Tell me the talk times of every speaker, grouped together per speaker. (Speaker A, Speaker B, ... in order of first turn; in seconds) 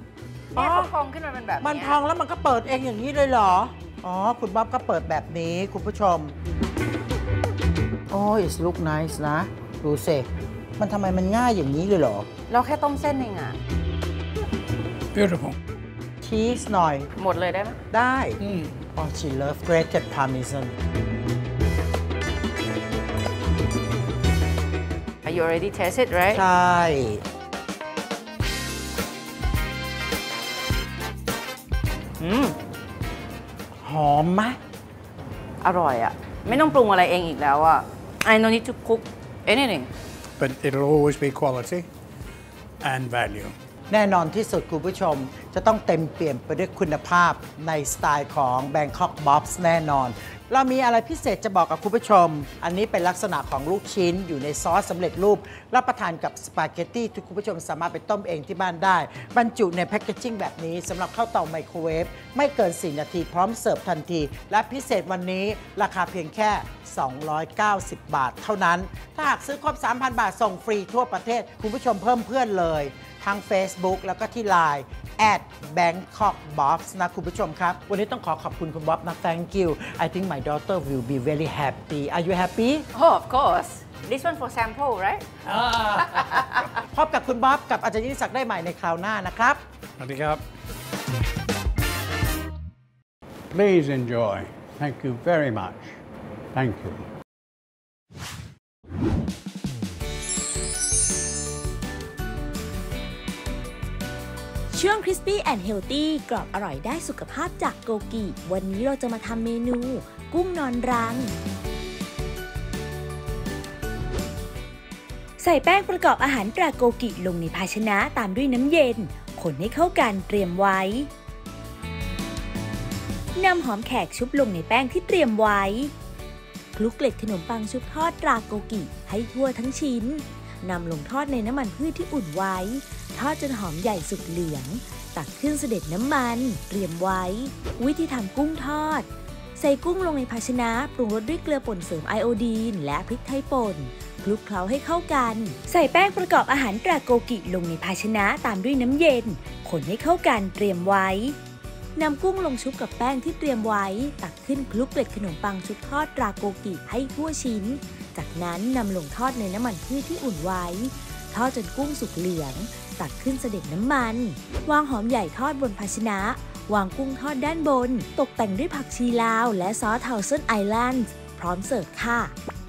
Speaker A: 0.5-0.9, 1.6-6.3, 8.1-10.3, 10.8-12.3, 16.2-17.1, 17.9-18.4, 18.9-20.7, 26.3-27.2, 33.8-34.6, 43.9-82.9, 86.9-89.6
Speaker B: 0.5-2.0, 12.5-13.6, 17.2-17.8, 25.2-26.4, 32.2-32.6, 35.6-39.9, 82.9-85.2, 86.0-86.7
Speaker C: 15.1-15.6, 18.4-18.8, 40.4-41.9, 42.8-43.5, 85.5-86.0, 90.0-90.4, 93.5-95.9, 96.5-97.0
Speaker D: 104.7-111.3, 115.4-121.1, 123.3-125.9, 126.7-151.4, 151.9-172.3